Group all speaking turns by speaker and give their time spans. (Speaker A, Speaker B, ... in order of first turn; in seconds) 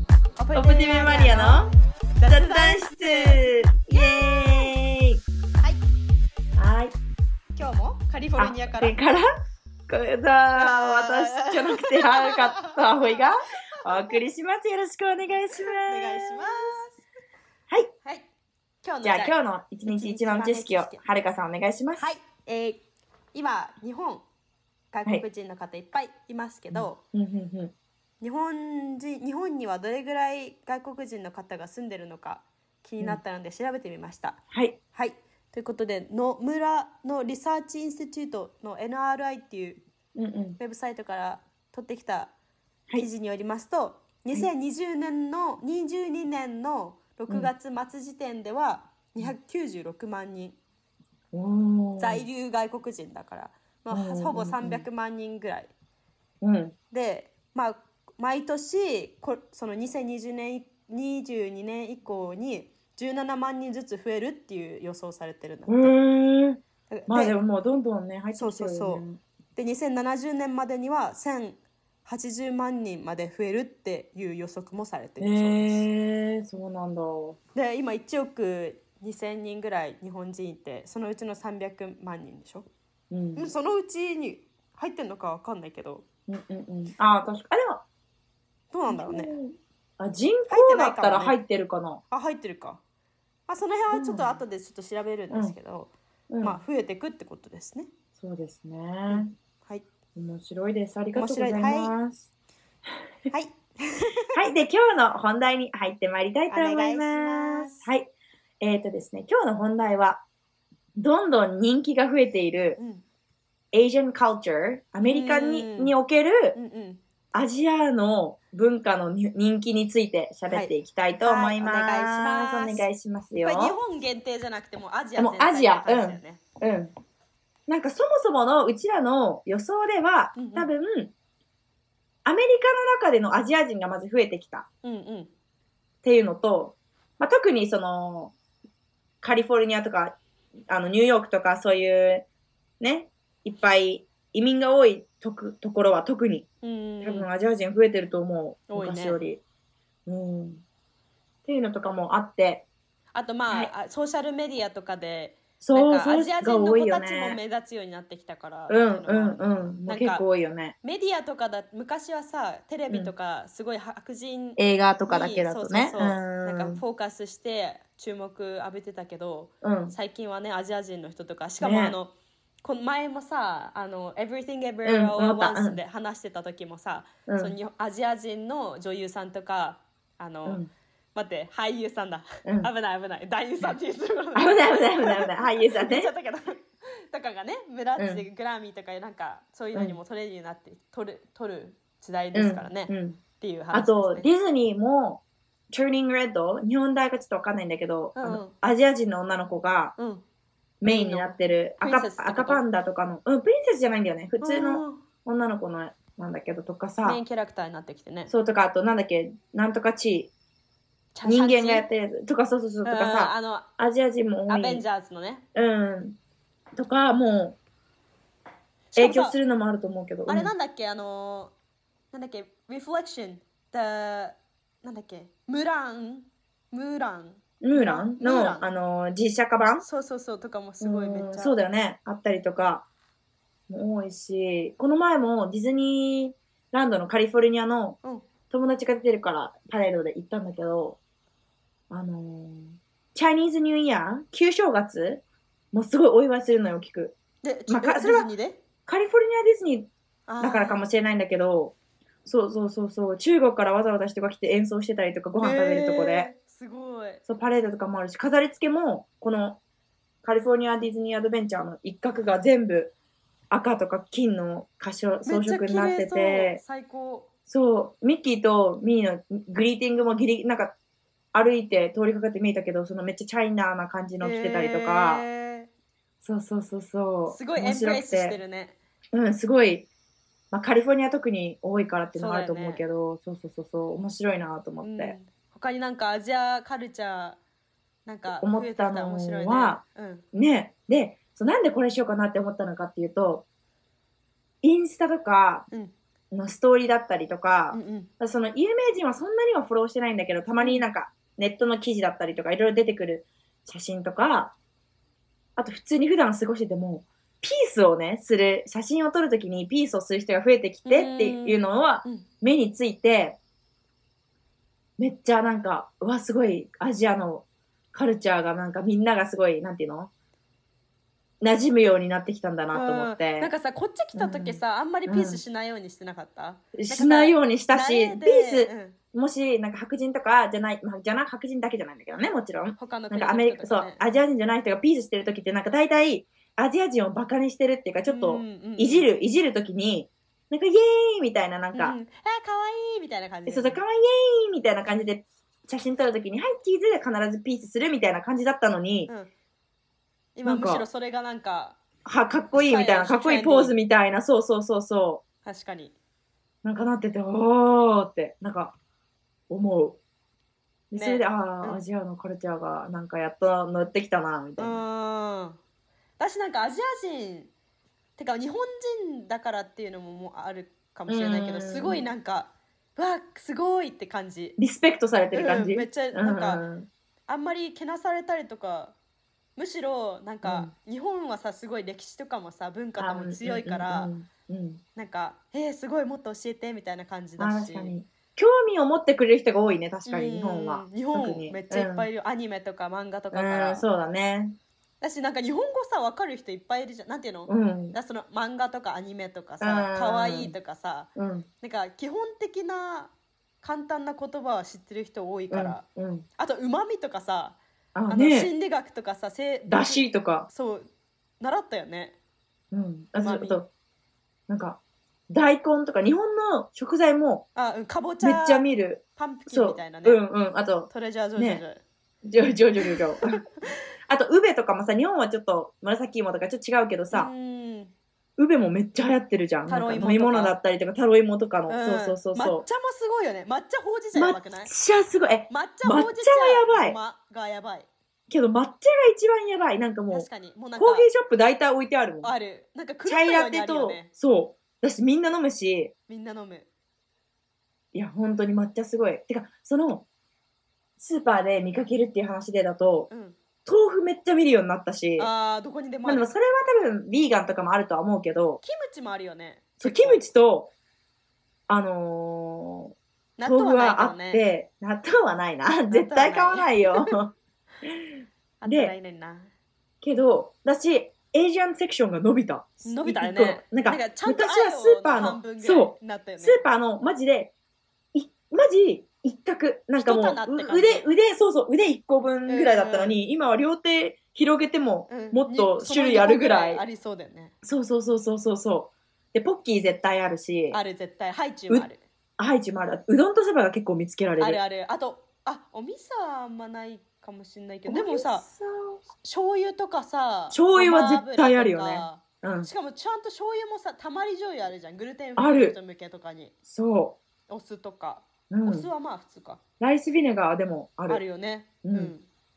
Speaker A: 0.4-4.7, 7.6-9.0, 10.6-13.3, 13.8-14.2, 15.7-17.0, 18.8-21.0, 22.0-22.8, 23.3-24.2, 24.9-27.0, 28.2-34.4, 34.9-39.8, 40.6-42.3, 43.0-50.6, 52.0-55.7, 56.9-66.0, 66.9-67.4, 68.3-69.0, 69.6-75.9, 77.5-82.7, 83.4-86.0, 88.7-89.3, 90.5-91.4, 92.1-92.8, 93.5-97.9, 99.1-99.8, 101.1-101.9, 103.3-104.4, 106.5-107.9, 112.8-113.0, 115.0-116.0, 116.5-117.0, 120.5-122.9, 123.4-126.4, 130.3-130.7, 134.8-135.3, 146.6-147.3, 148.7-149.2, 153.1-160.2, 160.8-172.1, 172.6-180.6, 181.2-194.3, 198.2-198.5, 200.0-200.2, 200.8-202.6, 204.4-205.0, 207.0-208.3, 211.2-211.9, 212.8-213.7, 214.5-215.4, 218.9-219.4, 220.3-221.5, 222.1-228.7, 229.8-231.6, 247.4-248.6, 250.3-250.8, 255.4-257.2, 265.3-267.3, 274.2-275.7, 277.3-278.8, 282.1-282.8, 284.8-287.4, 288.1-290.2, 297.7-298.1, 300.6-300.9, 310.9-312.3, 322.7-329.0, 332.8-334.2, 338.1-339.3, 341.7-343.8, 350.4-351.8, 352.6-353.8, 355.4-356.0, 360.9-361.8, 364.6-365.6, 366.2-367.5, 368.2-374.6, 375.3-376.6, 377.3-378.9, 379.6-384.1, 384.9-387.9, 390.1-393.8, 395.0-401.1, 401.6-405.8, 406.4-407.6, 408.1-410.9, 411.4-412.1, 413.2-413.6, 417.6-420.2, 420.9-421.8, 422.8-423.4, 427.1-427.9, 429.7-430.6, 431.7-434.7, 435.5-437.9, 440.1-441.1, 442.2-444.1, 446.1-446.7, 453.1-453.4, 455.2-456.3, 458.6-460.3, 463.4-464.4, 465.9-467.1, 468.6-469.5, 472.8-476.6, 480.0-481.1, 482.5-483.2, 485.1-487.5, 490.7-492.0, 494.4-498.4, 499.2-506.5, 507.5-509.6, 511.1-512.3
Speaker B: 0.5-1.7, 2.3-5.2, 6.6-7.0, 8.4-9.3, 9.9-16.8, 19.0-22.1, 26.7-27.7, 34.5-34.8, 40.1-40.6, 51.3-52.2, 53.9-54.9, 56.4-56.8, 65.7-69.2, 75.2-77.4, 83.1-83.5, 86.3-87.8, 88.9-92.0, 93.9-94.4, 96.3-96.6, 98.2-99.3, 100.2-102.2, 104.3-108.1, 108.6-110.2, 111.0-112.8, 113.7-116.6, 117.3-123.8, 125.2-126.9, 127.7-131.1, 132.2-134.7, 136.0-138.3, 139.2-140.2, 140.7-142.3, 142.8-146.5, 147.0-149.4, 150.1-150.6, 151.5-152.7, 155.6-157.4, 158.7-160.8, 164.6-166.8, 169.6-169.9, 171.6-172.0, 174.8-175.8, 177.3-177.6, 180.4-180.7, 182.4-182.7, 184.3-186.1, 188.0-188.2, 189.7-190.0, 192.3-193.2, 193.7-199.9, 200.8-207.2, 208.3-210.3, 211.2-214.8, 215.6-216.2, 216.8-217.6, 219.0-220.5, 227.6-229.8, 230.8-232.9, 233.7-238.0, 238.5-241.0, 241.9-245.2, 245.7-247.2, 247.7-248.3, 248.9-256.3, 257.3-259.6, 260.2-262.9, 263.5-266.6, 267.5-270.7, 271.3-275.2, 276.2-278.4, 279.1-279.9, 280.5-285.1, 288.3-289.8, 290.3-293.5, 294.6-295.7, 296.3-304.6, 305.6-313.4, 315.0-320.1, 321.4-323.5, 324.2-325.4, 326.7-342.0, 343.5-349.1, 350.4-350.9, 352.1-355.2, 356.6-358.7, 359.5-360.0, 360.9-364.8, 371.1-372.1, 374.6-376.9, 380.4-380.7, 383.0-384.8, 387.4-392.1, 393.3-394.6, 397.5-398.0, 399.6-400.5, 401.2-401.5, 405.5-406.3, 407.9-408.5, 409.7-410.5, 412.7-413.7, 414.5-414.8, 415.3-417.5, 418.2-421.6, 422.2-423.4, 424.1-427.3, 428.4-432.6, 434.1-437.0, 438.3-442.3, 443.1-445.9, 447.9-450.1, 451.0-453.1, 453.7-455.3, 456.1-458.6, 459.8-460.7, 461.7-468.9, 470.0-477.5, 478.1-486.8, 487.6-490.8, 492.4-494.6, 497.9-499.0, 500.5-502.7, 505.4-505.8, 506.7-507.2, 508.5-508.9, 509.8-511.2, 511.8-512.1